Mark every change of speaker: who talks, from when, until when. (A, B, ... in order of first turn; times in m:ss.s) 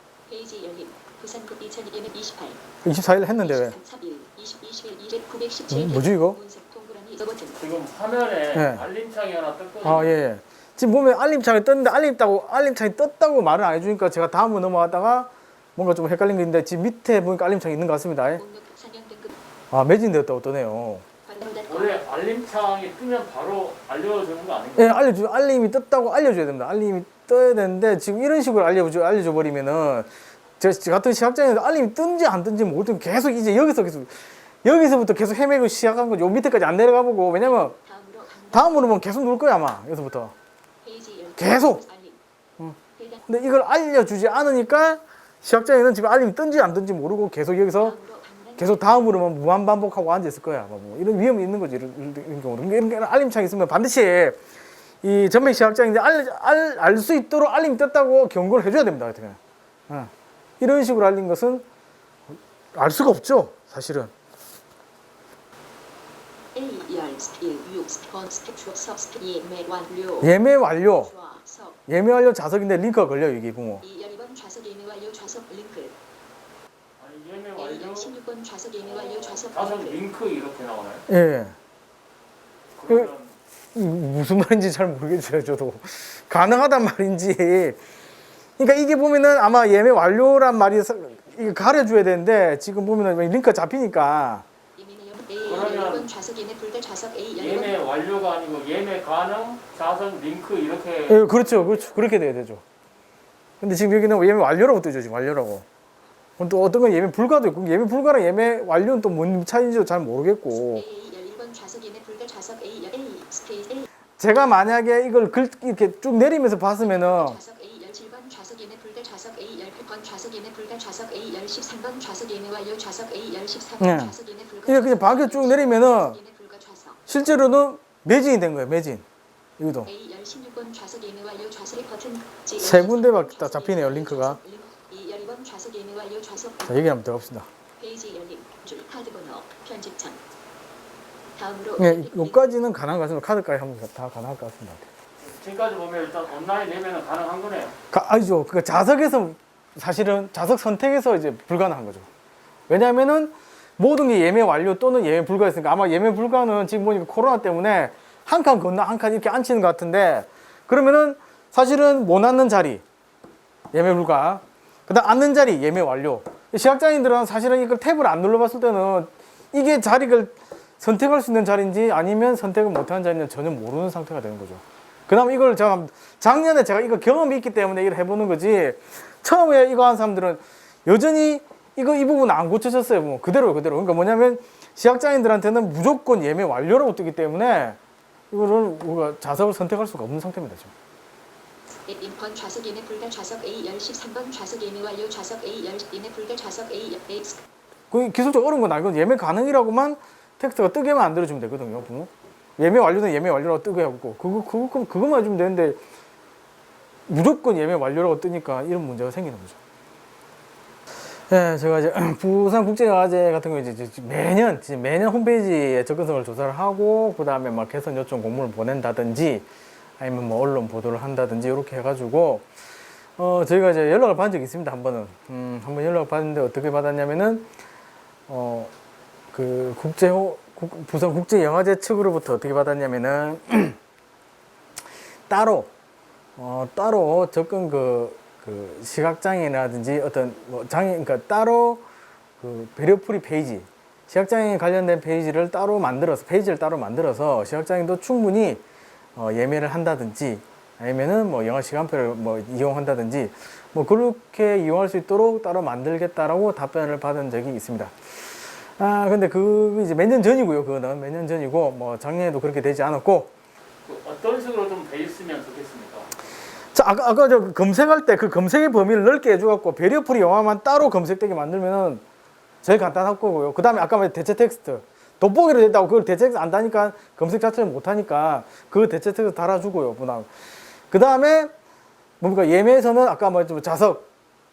0:00.2-0:02.6 A
0:02.8-0:03.8 B
0:03.2-0:07.6 A
0:05.7-0:06.4 B
0:07.6-0:10.1 C
0:08.5-0:08.8 B
0:09.8-0:18.4 B
0:18.3-0:19.4 A
0:19.7-0:21.0 B
0:21.2-0:22.0 A
0:21.7-0:25.0 C
0:24.8-0:37.7 B
0:37.4-0:38.8 A
0:38.5-0:40.3 B
0:40.8-0:42.2 A
0:41.4-0:41.8 B
0:42.6-0:48.0 B
0:42.9-0:43.2 A
0:47.8-0:48.9 A
0:48.6-0:54.4 B
0:55.0-0:59.4 B
0:59.9-1:01.6 B
1:02.3-1:04.1 B
1:06.5-1:11.8 A
1:10.2-1:11.1 B
1:11.9-1:13.8 B
1:13.8-1:16.0 A
1:17.0-1:18.1 C
1:17.6-1:20.0 A
1:18.8-1:21.0 C
1:21.1-1:21.6 B
1:22.7-1:23.4 C
1:23.7-1:27.8 B
1:28.6-1:34.4 B
1:34.7-1:37.8 A
1:35.4-1:36.1 C
1:37.4-1:42.0 C
1:41.1-1:42.6 B
1:43.6-1:45.6 B
1:46.4-1:50.8 B
1:50.7-1:53.9 A
1:54.2-1:57.4 B
1:56.8-2:07.0 A
2:03.8-2:04.1 B
2:04.7-2:06.2 B
2:07.1-2:09.0 B
2:09.6-2:09.9 B
2:09.8-2:17.0 A
2:12.6-2:14.4 B
2:16.7-2:17.5 B
2:17.8-2:20.2 A
2:21.3-2:22.6 A
2:21.8-2:24.9 B
2:25.2-2:27.7 C
2:27.9-2:32.1 B
2:32.7-2:42.8 B
2:43.7-3:07.8 B
3:08.3-3:10.7 B
3:11.9-3:17.4 A
3:17.9-3:25.8 B
3:27.1-3:29.6 B
3:31.3-3:39.4 B
3:40.0-3:42.5 B
3:43.2-3:47.5 B
3:48.3-3:48.7 B
3:49.3-3:53.8 B
3:55.3-3:55.7 B
3:56.4-4:01.8 B
4:02.4-4:08.6 B
4:09.2-4:23.3 B
4:23.8-4:26.1 C
4:26.7-4:32.0 B
4:32.6-4:40.3 B
4:40.9-4:41.5 B
4:42.2-4:44.1 B